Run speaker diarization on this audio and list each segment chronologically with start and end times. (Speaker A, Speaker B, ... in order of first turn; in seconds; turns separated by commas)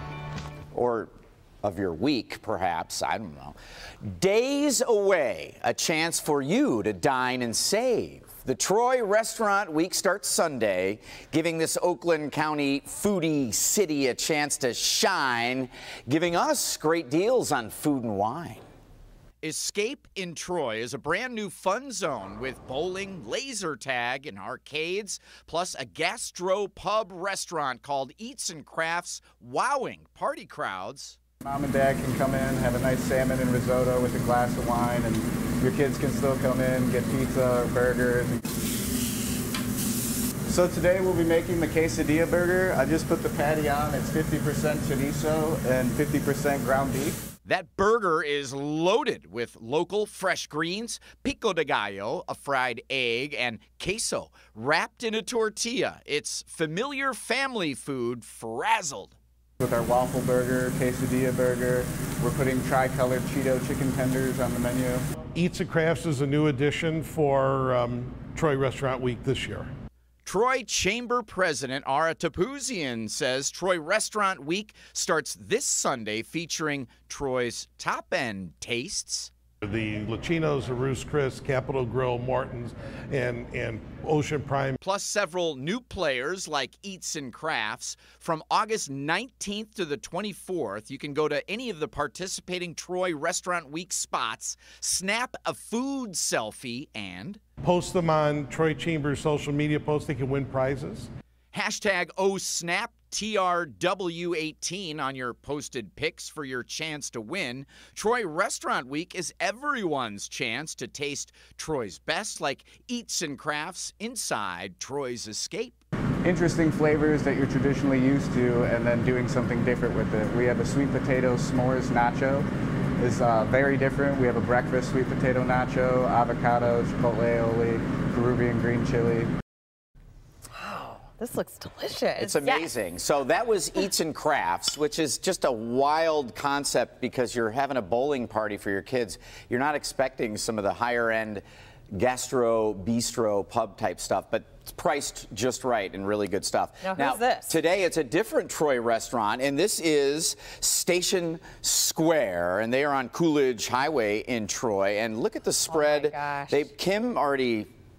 Speaker A: 0.7-1.1, Speaker A: 1.6-18.6, Speaker A: 19.4-31.2, Speaker B: 31.4-38.4, Speaker B: 40.5-47.2, Speaker A: 47.5-59.1, Speaker B: 59.6-65.0, Speaker C: 65.4-69.7, Speaker A: 70.2-79.3, Speaker C: 79.6-84.8, Speaker A: 84.8-97.4, Speaker C: 97.6-101.1, Speaker A: 101.5-115.8, Speaker B: 116.2-122.5, Speaker B: 123.0-129.3, Speaker D: 130.6-132.4, Speaker A: 132.2-157.7, Speaker D: 146.8-147.6, Speaker D: 155.7-156.7